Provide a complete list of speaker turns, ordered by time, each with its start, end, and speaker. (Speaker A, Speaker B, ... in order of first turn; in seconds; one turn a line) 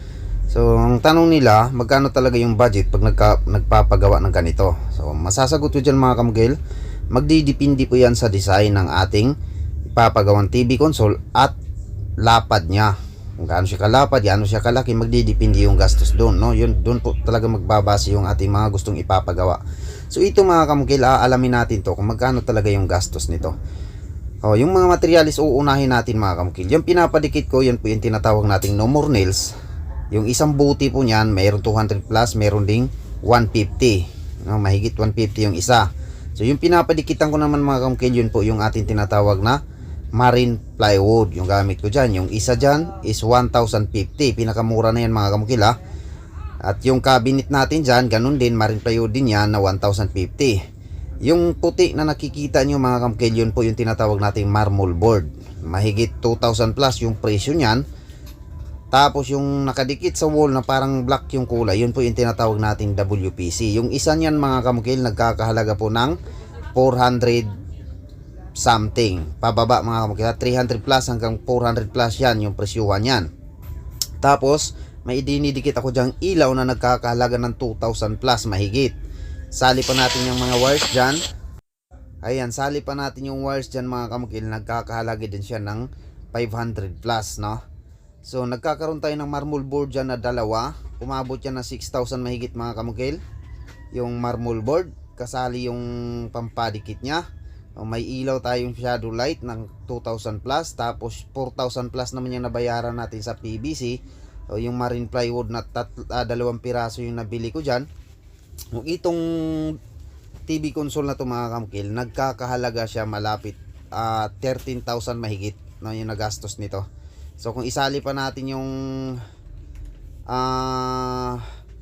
Speaker A: 0.5-6.6
Speaker A: 7.1-9.4
Speaker A: 9.9-11.6
Speaker A: 12.2-23.6
Speaker A: 24.4-29.6
Speaker A: 30.1-39.6
Speaker A: 40.1-45.8
Speaker A: 46.6-50.6
Speaker A: 51.2-57.9
Speaker A: 58.9-66.2
Speaker A: 66.7-67.6
Speaker A: 68.6-73.3
Speaker A: 74.2-79.0
Speaker A: 79.5-81.2
Speaker A: 82.2-87.6
Speaker A: 88.2-93.2
Speaker A: 93.9-97.2
Speaker A: 97.8-104.0
Speaker A: 104.5-107.9
Speaker A: 108.7-109.8
Speaker A: 110.5-116.8
Speaker A: 117.4-119.2
Speaker A: 120.3-121.5